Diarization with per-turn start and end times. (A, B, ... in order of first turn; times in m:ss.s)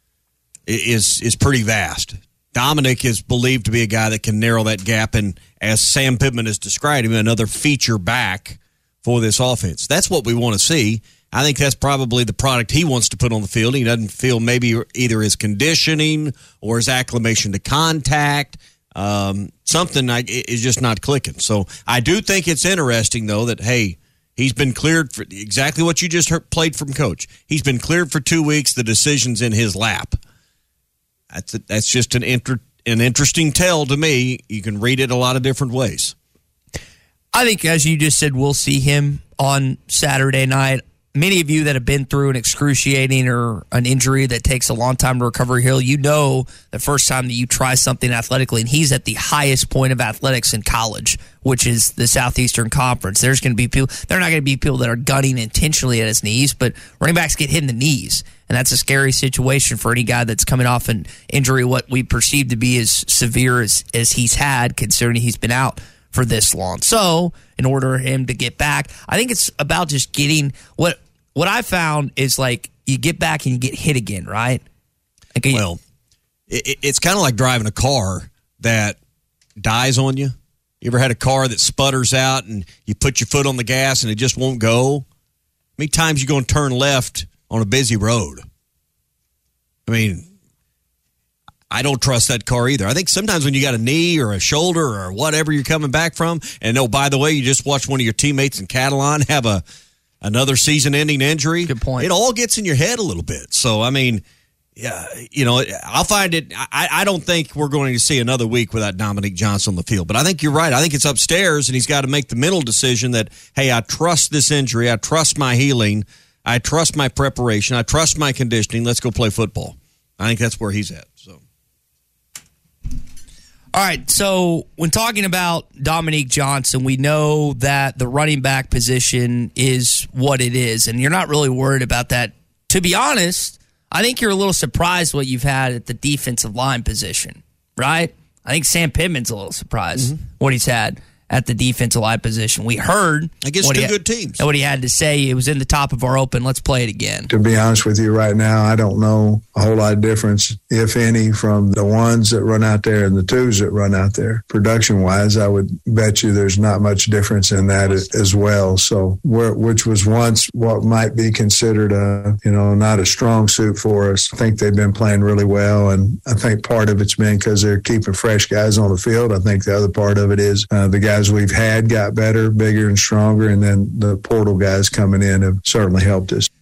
0:00.7-0:30.2 A
0:31.3-0:36.2 A
0:37.3-1:14.6 B
1:15.4-1:15.6 B
1:15.5-1:15.8 A
1:16.5-1:19.0 A
1:19.6-1:25.0 A
1:25.8-1:28.4 A
1:29.9-1:30.3 A
1:31.7-1:39.6 A
1:40.2-1:44.2 A
1:41.7-1:42.1 B
1:44.8-2:01.4 A
2:03.7-2:27.3 B
2:23.4-2:24.4 A
2:27.3-2:56.5 C